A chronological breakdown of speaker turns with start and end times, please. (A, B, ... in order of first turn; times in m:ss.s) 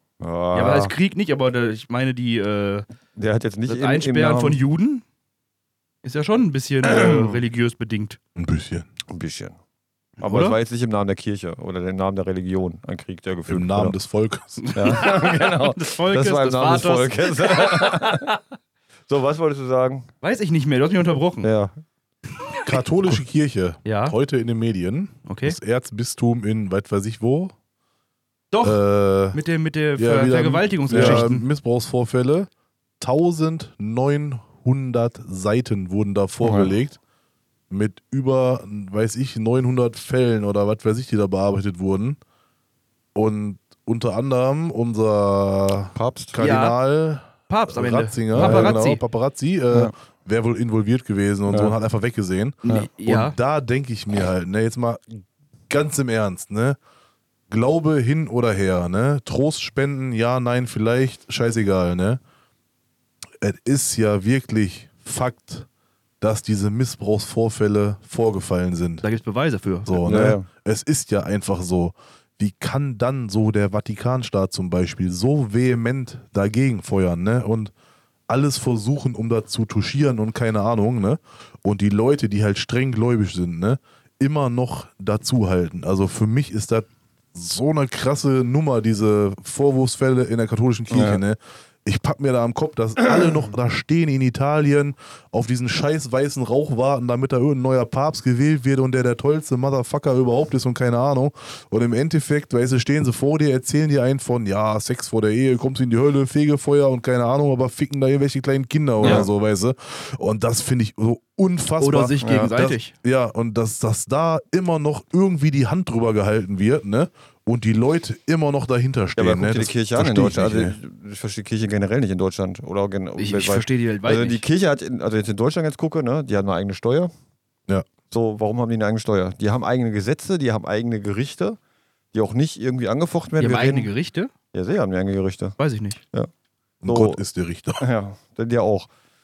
0:00.2-0:00.9 A
0:00.5-0:02.9 B
0:03.2-0:04.6 A
0:03.7-0:05.0 B
0:06.0-0:08.2 B
0:06.8-0:07.4 A
0:08.4-0:08.9 C
0:09.1-0:09.6 A
0:10.2-0:10.6 B
0:10.2-0:14.0 A
0:13.5-0:14.8 C
0:14.6-0:18.4 B
0:14.8-0:18.4 A
0:19.1-0:20.1 A
0:20.2-0:21.5 B
0:21.4-0:21.7 A
0:22.6-0:27.5 C
0:23.8-0:24.2 B
0:25.3-0:25.6 B
0:28.5-0:28.8 B
0:28.6-0:29.4 C
0:29.3-0:31.5 B
0:30.0-0:32.5 C
0:30.9-0:31.3 A
0:33.0-0:37.0 C
0:36.4-0:36.7 A
0:37.7-0:42.2 C
0:43.2-0:55.0 C
0:46.0-0:46.4 A
0:46.4-0:46.8 B
0:47.5-0:49.0 B
0:48.3-0:48.8 A
0:52.6-0:53.4 B
0:55.7-0:56.8 C
0:57.5-1:02.2 C
1:03.4-1:05.7 C
1:06.2-1:09.0 C
1:09.0-1:10.0 B
1:09.9-1:17.7 C
1:10.0-1:10.5 A
1:18.3-2:00.8 C
1:30.9-1:31.2 A
1:33.0-1:33.4 A
1:49.0-1:49.3 A
1:51.8-1:52.9 B
1:52.2-1:52.5 A
1:59.2-2:07.1 A
2:03.2-2:04.4 B
2:08.1-2:11.6 A
2:12.1-2:13.9 A
2:13.4-2:14.3 B
2:14.5-2:15.6 A
2:15.6-2:16.0 B
2:16.8-2:17.8 C
2:16.9-2:17.2 A
2:17.8-2:18.9 A